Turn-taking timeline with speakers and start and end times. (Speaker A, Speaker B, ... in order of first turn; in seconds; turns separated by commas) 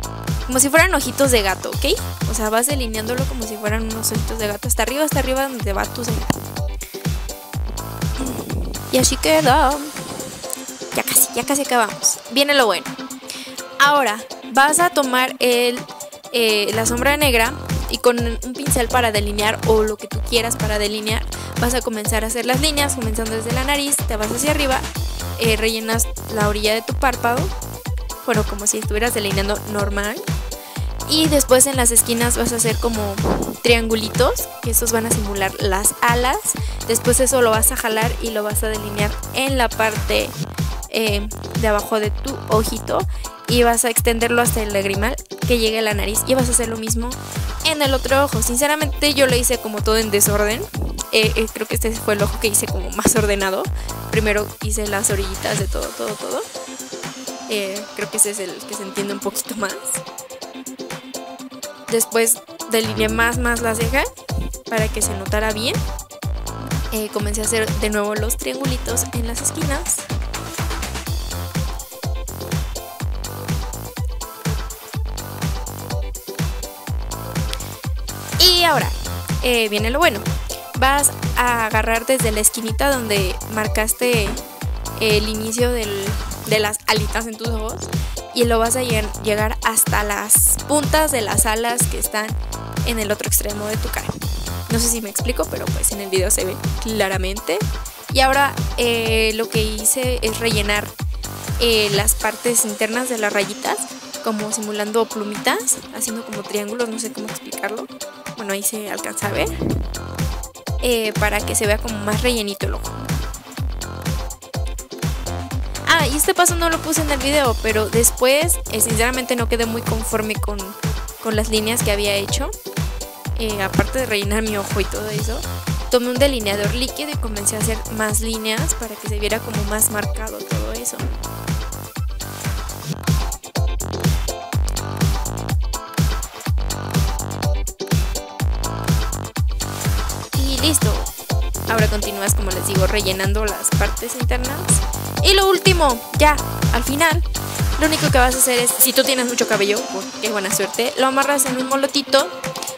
Speaker A: 0.5-6.3, Speaker A: 8.2-10.3, Speaker A: 10.9-12.9, Speaker A: 13.8-27.5, Speaker A: 28.2-30.2, Speaker A: 31.1-40.4, Speaker A: 40.9-56.5, Speaker A: 57.5-60.0, Speaker A: 61.9-64.1, Speaker A: 64.7-65.8, Speaker A: 66.9-70.1, Speaker A: 78.4-84.4, Speaker A: 85.0-100.9, Speaker A: 101.6-109.5, Speaker A: 110.8-113.0, Speaker A: 115.9-122.5, Speaker A: 123.4-131.1, Speaker A: 140.3-141.1, Speaker A: 141.7-147.3, Speaker A: 147.8-152.3